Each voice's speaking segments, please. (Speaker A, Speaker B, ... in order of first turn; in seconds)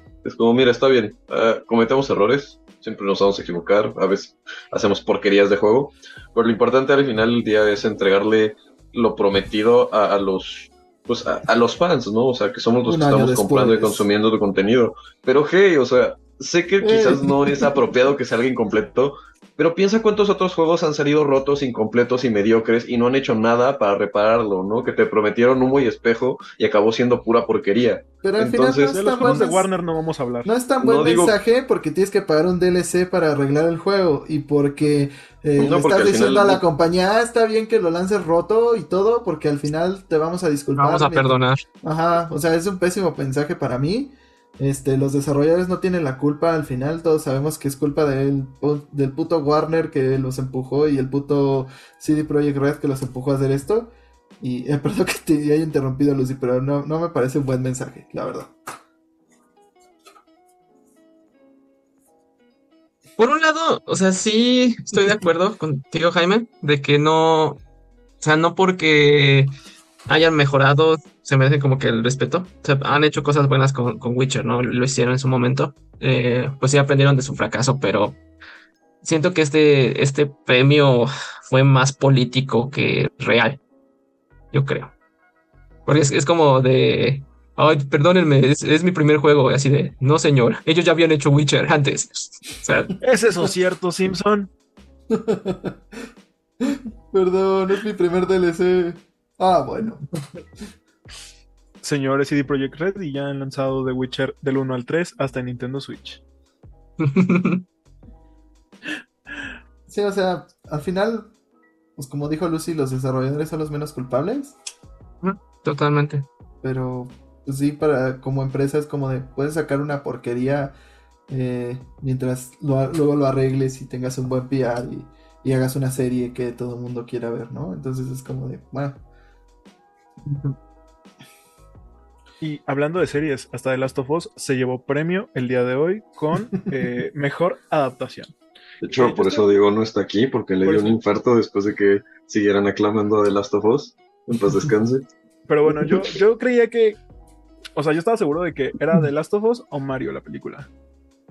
Speaker A: 0.2-29.4, 30.8-31.4, 35.6-36.6, 138.8-145.1
Speaker B: 12.8-14.1, 16.8-17.8, 28.2-29.7, 30.4-58.5, 95.1-95.8, 96.6-100.1, 109.9-111.3, 112.0-114.6, 116.6-120.8, 121.3-129.0
Speaker C: 28.9-30.6, 93.0-94.5, 101.8-106.2, 132.4-138.3, 139.0-139.4, 140.6-141.0, 145.5-147.0, 147.8-150.7
Speaker D: 40.8-41.6, 63.2-67.6, 68.2-69.5, 70.1-78.2, 79.0-83.6, 84.5-84.9, 85.9-93.0, 107.0-107.6, 115.2-116.3, 130.3-130.6